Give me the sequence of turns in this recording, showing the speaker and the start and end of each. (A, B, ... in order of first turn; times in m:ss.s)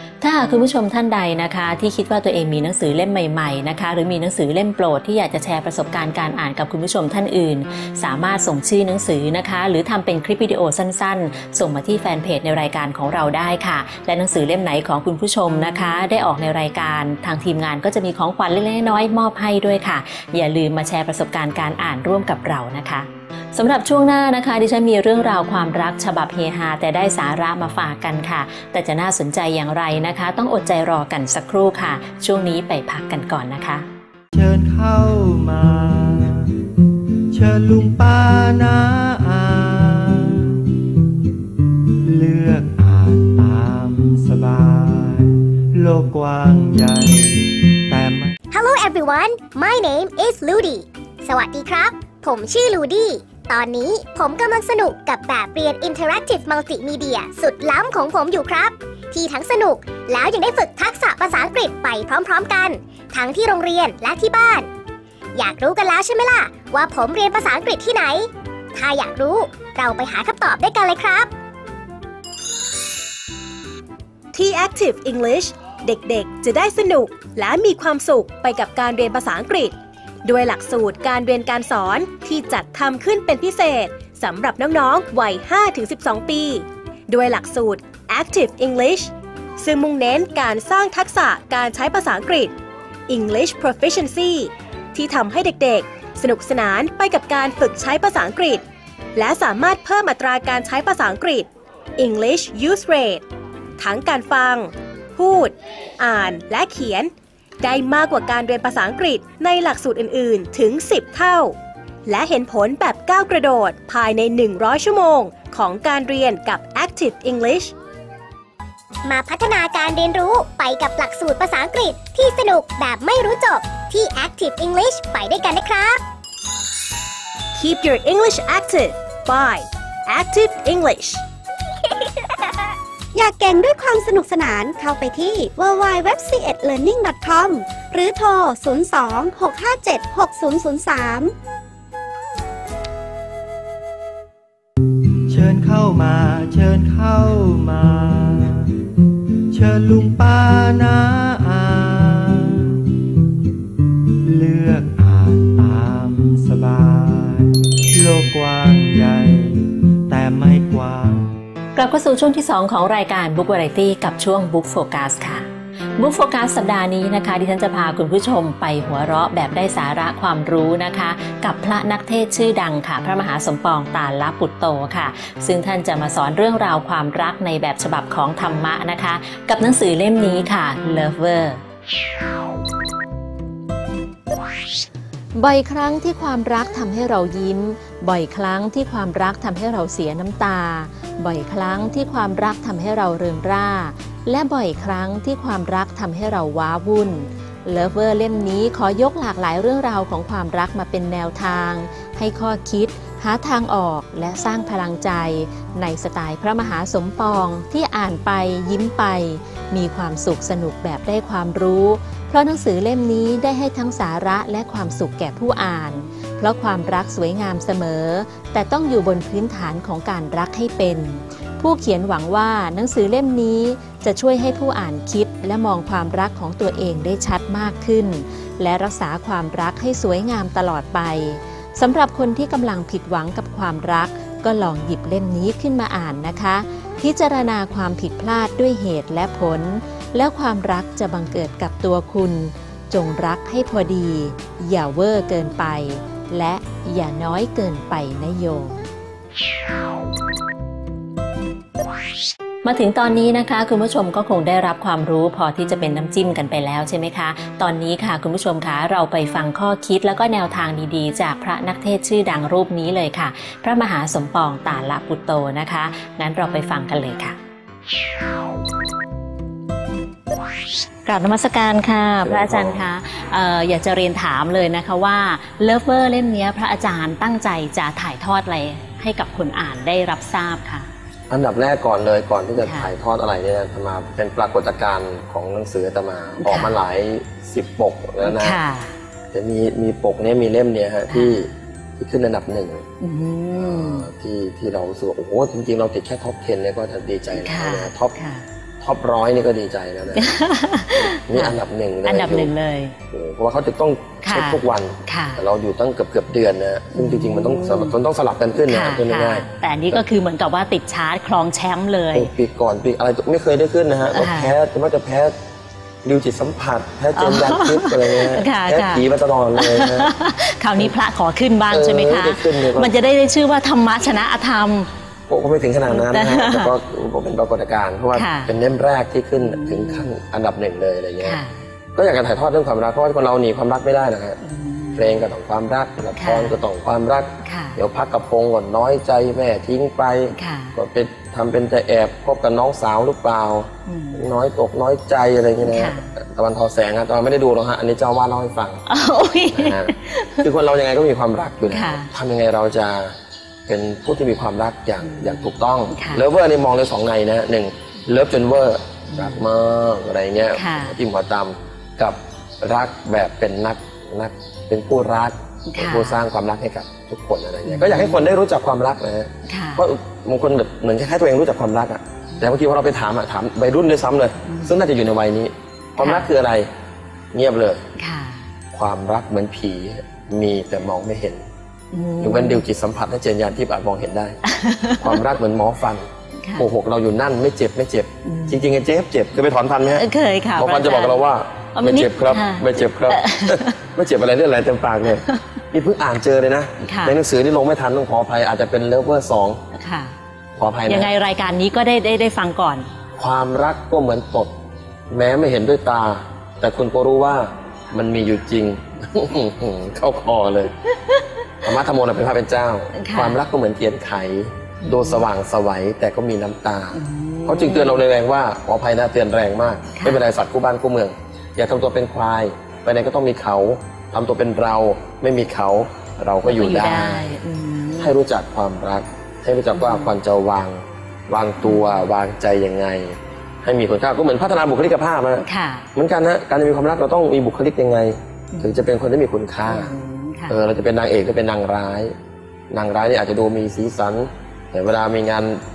0:00.2-0:33.8 A
0:34.3-0:36.5 B
0:37.3-0:40.6 B
0:42.0-0:48.3 B
0:48.5-1:04.7 C
1:05.3-1:11.3 C
1:14.3-1:19.7 D
1:20.2-1:32.5 D
1:33.1-1:38.6 D
1:39.2-1:43.2 D
1:43.8-1:51.5 D
1:52.0-1:57.7 D
1:59.0-2:06.0 C
2:07.5-2:11.2 D
2:13.1-2:21.3 E
2:25.3-2:28.7 B
2:29.5-2:32.8 B
2:34.2-2:41.3 B
2:41.8-2:45.4 A
2:46.0-3:01.6 A
3:05.4-4:08.7 A
4:12.6-4:27.4 A
4:31.0-4:40.9 A
4:32.2-4:32.8 F
4:41.3-4:48.6 F
4:42.6-4:42.9 A
4:46.4-4:46.8 A
4:48.2-4:48.9 A
4:49.3-4:52.9 F
4:51.1-4:51.4 A
4:53.0-4:54.1 A
4:53.5-4:58.1 F
4:57.3-4:58.4 A
4:58.8-5:00.4 F
5:00.1-5:02.9 A
5:01.0-5:02.5 F
5:03.1-5:10.0 F
5:04.2-5:05.4 A
5:06.9-5:07.9 A
5:08.7-5:12.3 A
5:12.1-5:15.3 F
5:14.1-5:14.5 A
5:16.0-5:20.1 F
5:17.1-5:24.9 A
5:21.7-5:23.1 F
5:25.3-5:31.4 F
5:25.9-5:26.7 A
5:28.1-5:28.5 A
5:29.4-5:30.1 A
5:31.2-5:31.6 A
5:31.9-5:34.4 F
5:34.4-5:35.2 A
5:34.9-5:48.8 F
5:36.2-5:36.5 A
5:37.4-5:37.8 A
5:40.4-5:40.7 A
5:43.8-5:44.3 A
5:45.6-5:46.1 A
5:48.9-5:50.5 A
5:49.5-5:53.2 F
5:51.7-5:52.1 A
5:53.7-6:16.7 F
5:55.0-5:56.2 A
5:59.1-5:59.4 A
6:00.5-6:01.0 A
6:05.7-6:06.2 A
6:07.6-6:08.3 A
6:09.4-6:09.8 A
6:14.5-6:14.7 A
6:16.0-6:16.3 A
6:17.3-6:17.8 F
6:18.0-6:18.4 A
6:18.7-6:21.4 F
6:21.9-6:22.6 A
6:22.2-6:24.4 F
6:24.4-6:25.2 A
6:25.0-6:39.6 F
6:28.2-6:28.6 A
6:29.9-6:31.2 A
6:31.7-6:33.8 A
6:36.8-6:37.2 A
6:39.7-6:40.1 A
6:40.6-6:41.1 F
6:40.9-6:42.9 A
6:43.2-6:44.5 F
6:45.1-6:50.7 F
6:50.9-6:51.2 A
6:51.6-7:07.4 F
6:52.9-6:53.4 A
6:54.8-6:55.2 A
6:56.9-6:58.0 A
6:59.9-7:00.2 A
7:06.5-7:08.1 A
7:08.0-7:15.4 F
7:09.7-7:10.1 A
7:11.6-7:12.0 A
7:15.4-7:15.9 A
7:15.9-7:19.9 F
7:18.5-7:18.8 A
7:19.7-7:20.6 A
7:20.5-7:22.1 F
7:22.7-7:25.6 F